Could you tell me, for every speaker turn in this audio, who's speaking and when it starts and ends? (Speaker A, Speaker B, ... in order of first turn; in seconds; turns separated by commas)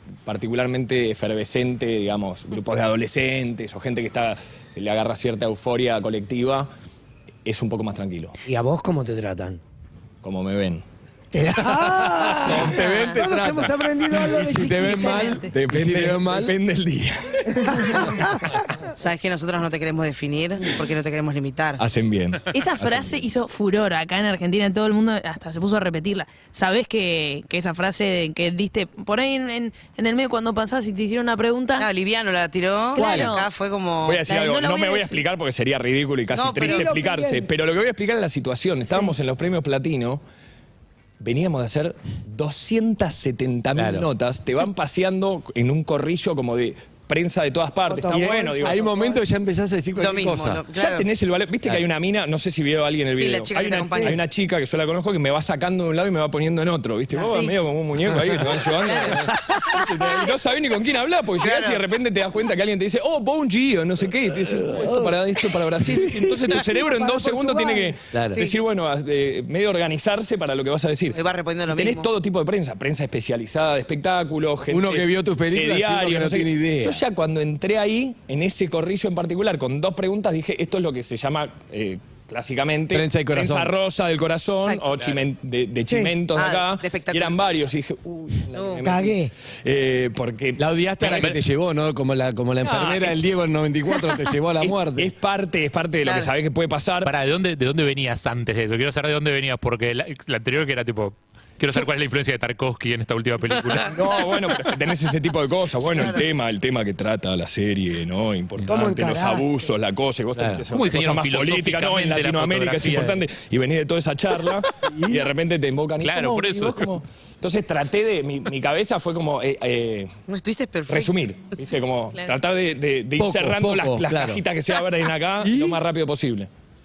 Speaker A: 0.2-6.7, Speaker A: 7.4-8.3, Speaker B: 8.4-9.6, Speaker A: 10.2-10.8, Speaker B: 11.3-15.4, Speaker C: 11.6-16.5, Speaker D: 12.8-13.1, Speaker D: 14.8-15.5, Speaker A: 15.5-18.1, Speaker B: 17.7-18.6, Speaker E: 18.9-21.8, Speaker A: 21.8-23.2, Speaker D: 22.5-31.9, Speaker E: 31.8-34.2, Speaker D: 32.9-33.5, Speaker C: 33.0-33.3, Speaker A: 34.0-40.2, Speaker D: 34.2-35.2, Speaker E: 36.3-36.9, Speaker B: 36.6-37.6, Speaker A: 41.2-49.0, Speaker C: 43.7-44.1, Speaker B: 47.9-49.2, Speaker C: 48.1-50.6, Speaker E: 50.0-51.1, Speaker A: 50.7-91.3, Speaker E: 53.1-54.2, Speaker D: 57.1-57.5, Speaker C: 58.0-58.7, Speaker D: 58.8-59.1, Speaker C: 59.3-60.1, Speaker E: 61.4-61.8, Speaker C: 64.5-66.3, Speaker B: 66.6-67.9, Speaker C: 68.1-68.4, Speaker E: 71.1-72.1, Speaker C: 74.7-77.0, Speaker C: 82.9-83.7, Speaker D: 84.7-85.0, Speaker B: 85.9-86.1, Speaker E: 86.3-87.4, Speaker E: 88.5-88.8, Speaker B: 88.8-89.3, Speaker C: 90.6-95.1, Speaker F: 91.1-91.4, Speaker A: 92.6-93.2, Speaker A: 94.6-97.1, Speaker E: 96.0-96.3, Speaker F: 97.0-104.0, Speaker A: 103.9-120.1, Speaker E: 105.9-106.2, Speaker B: 108.7-109.7, Speaker C: 110.3-110.6, Speaker F: 110.7-113.2, Speaker C: 114.8-115.3, Speaker F: 116.0-116.9, Speaker E: 120.3-121.2, Speaker A: 120.9-126.5, Speaker C: 123.2-124.4, Speaker C: 125.4-125.8